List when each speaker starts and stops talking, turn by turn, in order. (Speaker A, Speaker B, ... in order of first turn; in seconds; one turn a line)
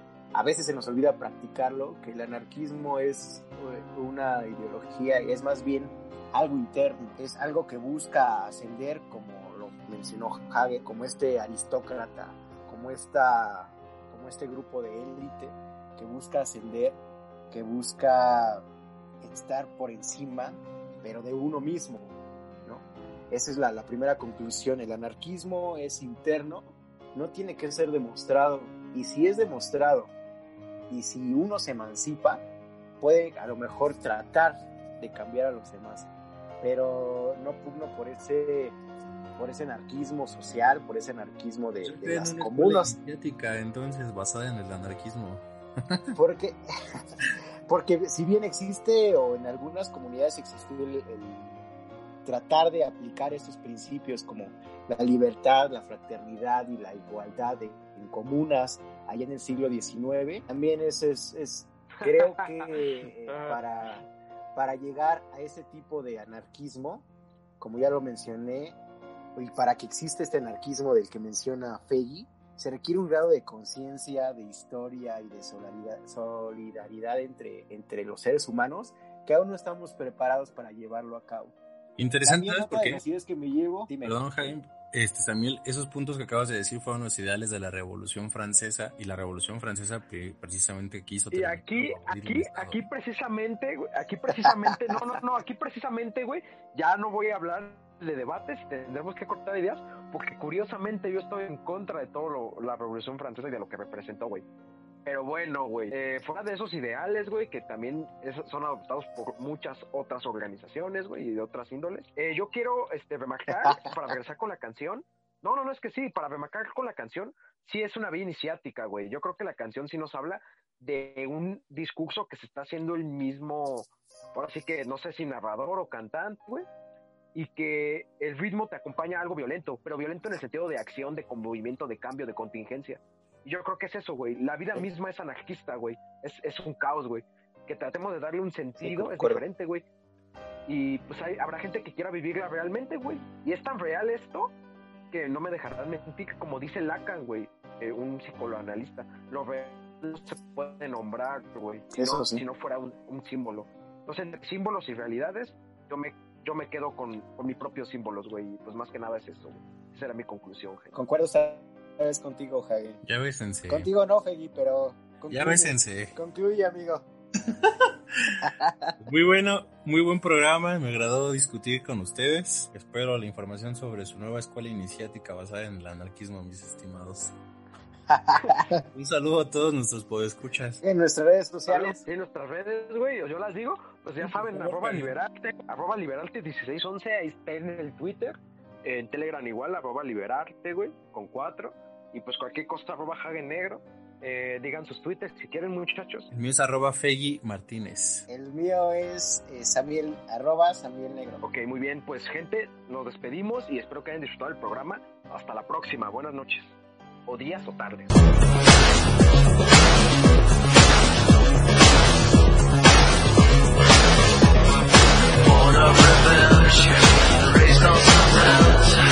Speaker A: 0.3-17.0
Speaker A: 17.5-18.7
Speaker A: 19.2-30.1
Speaker A: 30.9-32.4
Speaker A: 33.0-36.1
Speaker A: 36.6-38.8
Speaker A: 39.4-43.0
Speaker B: 41.8-46.2
Speaker A: 46.1-51.6
Speaker A: 52.2-64.0
Speaker C: 62.0-63.6
Speaker A: 64.5-67.1
Speaker A: 67.6-68.8
Speaker A: 69.4-81.6
Speaker B: 82.0-83.0
Speaker A: 82.2-84.6
Speaker B: 84.0-92.8
Speaker C: 91.3-104.4
Speaker A: 94.5-95.0
Speaker C: 105.0-126.7
Speaker A: 113.6-113.9
Speaker C: 127.3-139.8
Speaker A: 138.8-139.4
Speaker C: 140.7-144.5
Speaker C: 145.1-160.9
Speaker A: 151.9-152.4
Speaker A: 160.9-163.0
Speaker B: 163.1-163.9
Speaker A: 163.7-167.1
Speaker B: 165.3-166.1
Speaker B: 167.5-168.4
Speaker A: 168.4-169.0
Speaker B: 169.0-177.3
Speaker A: 178.1-178.8
Speaker B: 178.9-180.8
Speaker A: 180.8-182.0
Speaker C: 181.7-196.3
Speaker B: 184.2-185.1
Speaker B: 196.3-198.3
Speaker A: 198.3-201.4
Speaker C: 201.4-206.8
Speaker C: 207.3-208.1
Speaker C: 215.9-216.8
Speaker C: 217.7-218.6